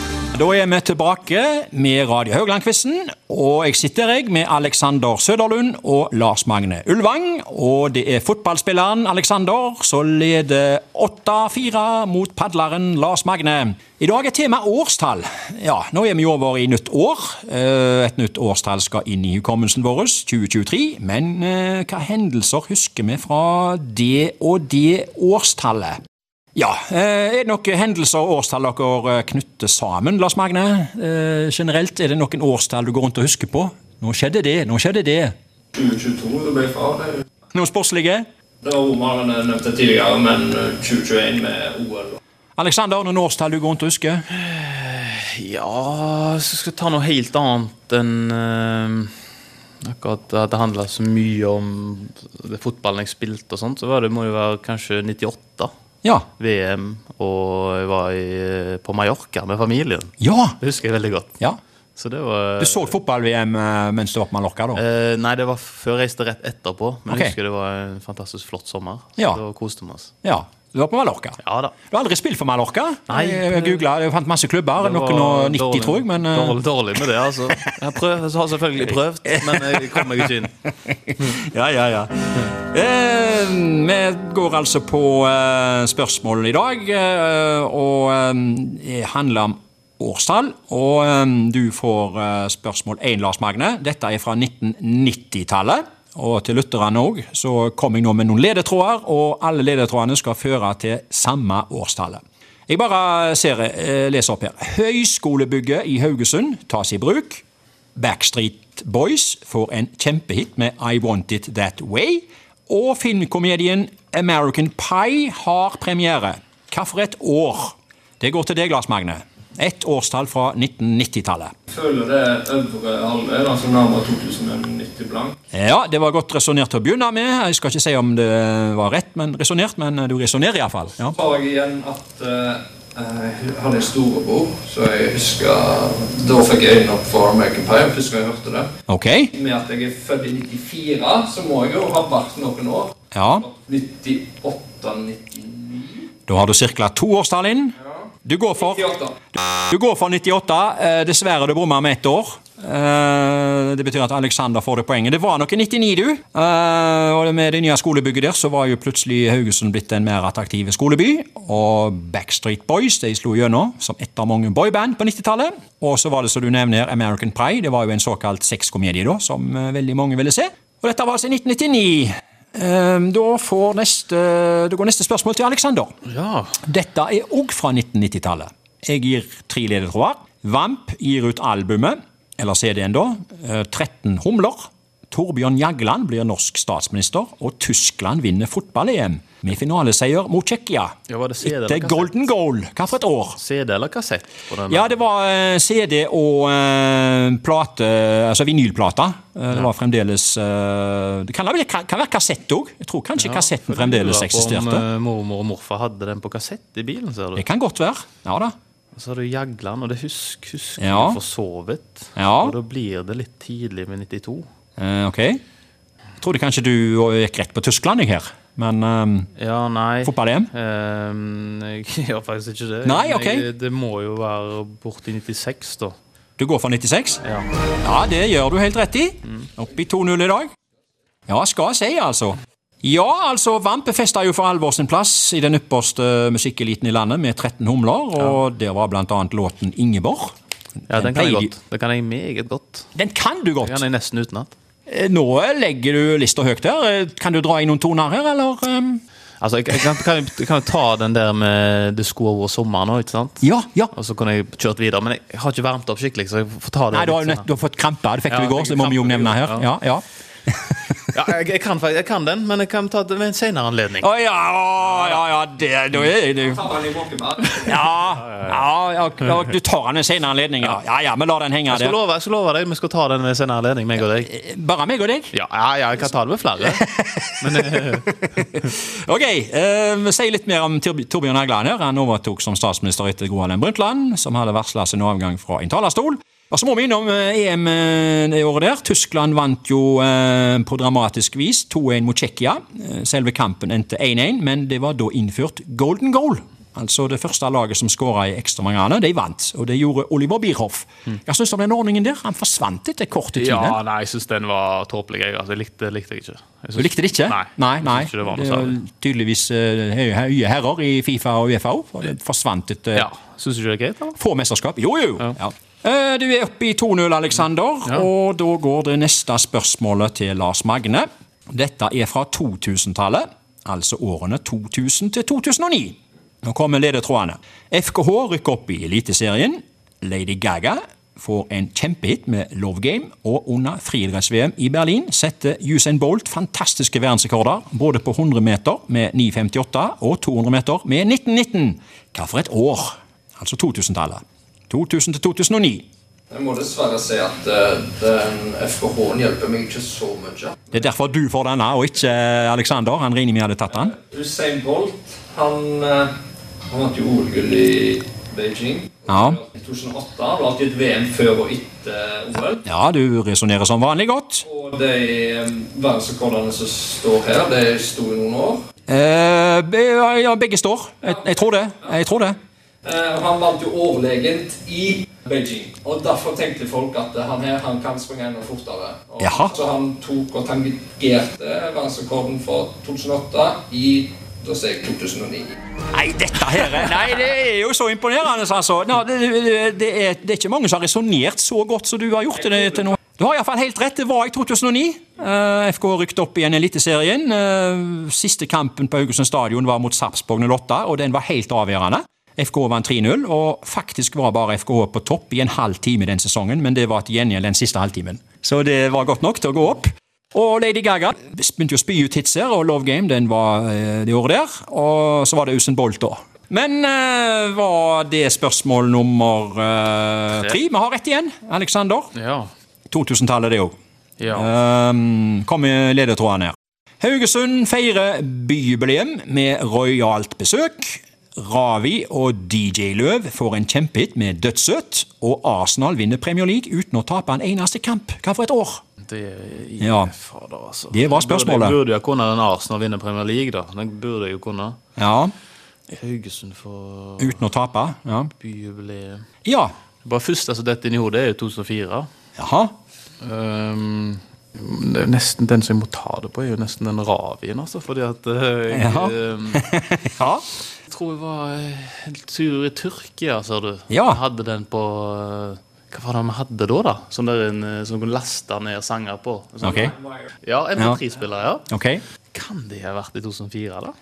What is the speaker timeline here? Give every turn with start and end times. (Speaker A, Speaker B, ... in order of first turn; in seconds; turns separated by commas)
Speaker A: 0.3-26.0, Speaker A: 26.6-35.3, Speaker B: 35.7-37.2, Speaker A: 37.5-38.2, Speaker B: 38.6-42.2, Speaker A: 42.6-44.2, Speaker C: 44.3-49.1, Speaker C: 49.8-55.7, Speaker C: 56.4-61.4, Speaker A: 60.2-60.6, Speaker C: 62.0-62.9, Speaker A: 62.6-64.8, Speaker C: 64.7-70.1, Speaker A: 67.1-67.3, Speaker A: 70.2-71.4, Speaker C: 71.4-71.7, Speaker A: 71.9-76.6, Speaker C: 73.1-73.8, Speaker C: 74.8-80.5, Speaker A: 79.3-80.3, Speaker A: 80.8-107.4, Speaker A: 108.0-121.5, Speaker B: 121.7-125.4, Speaker A: 125.5-131.2, Speaker B: 131.1-138.7, Speaker A: 138.9-139.3, Speaker B: 139.3-146.1, Speaker A: 143.1-143.4, Speaker A: 146.3-175.9, Speaker B: 148.6-149.1, Speaker C: 176.1-176.6, Speaker A: 176.6-193.4, Speaker C: 191.1-192.3, Speaker C: 193.4-195.0, Speaker A: 194.7-204.8, Speaker C: 203.2-207.4, Speaker A: 207.3-208.5, Speaker C: 208.9-214.4, Speaker A: 210.8-211.2, Speaker A: 212.2-212.6, Speaker A: 214.8-215.4, Speaker A: 216.2-219.3, Speaker C: 219.3-225.9, Speaker A: 220.0-220.5, Speaker A: 222.8-223.4, Speaker A: 226.4-227.2, Speaker C: 227.2-227.5, Speaker A: 227.8-230.5, Speaker A: 231.3-240.3, Speaker C: 240.9-242.9, Speaker A: 240.9-241.5, Speaker A: 242.9-243.8, Speaker C: 243.6-244.5, Speaker A: 244.9-249.0, Speaker C: 249.4-257.5, Speaker A: 253.4-253.9, Speaker A: 256.9-260.8, Speaker C: 258.3-259.7, Speaker C: 261.1-264.1, Speaker A: 264.0-266.7, Speaker B: 266.4-268.0, Speaker A: 267.6-272.0, Speaker C: 271.7-274.3, Speaker A: 274.1-275.3, Speaker C: 275.3-276.9, Speaker A: 276.7-303.8, Speaker C: 277.4-278.1, Speaker C: 303.3-308.8, Speaker A: 306.8-313.1, Speaker C: 312.9-314.2, Speaker A: 314.2-345.9, Speaker B: 346.3-350.8, Speaker A: 350.7-353.9, Speaker B: 353.8-356.1, Speaker B: 356.7-362.6, Speaker A: 359.1-359.4, Speaker A: 362.6-364.4, Speaker B: 364.4-368.6, Speaker A: 368.9-372.4, Speaker B: 372.8-385.6, Speaker A: 379.2-379.6, Speaker A: 385.9-422.1, Speaker B: 392.5-392.9, Speaker C: 422.1-422.5, Speaker A: 422.9-423.7, Speaker C: 424.2-424.5, Speaker A: 424.3-438.8, Speaker C: 439.0-444.8, Speaker A: 439.8-440.1, Speaker A: 440.9-441.8, Speaker A: 445.0-445.3, Speaker C: 445.9-447.5, Speaker A: 447.2-448.3, Speaker C: 448.4-449.2, Speaker A: 449.4-449.7, Speaker C: 450.0-452.1, Speaker A: 452.4-452.7, Speaker C: 453.2-459.7, Speaker A: 458.7-460.4, Speaker C: 460.9-471.7, Speaker A: 463.9-464.2, Speaker A: 469.6-469.9, Speaker A: 471.7-472.0, Speaker C: 472.3-473.9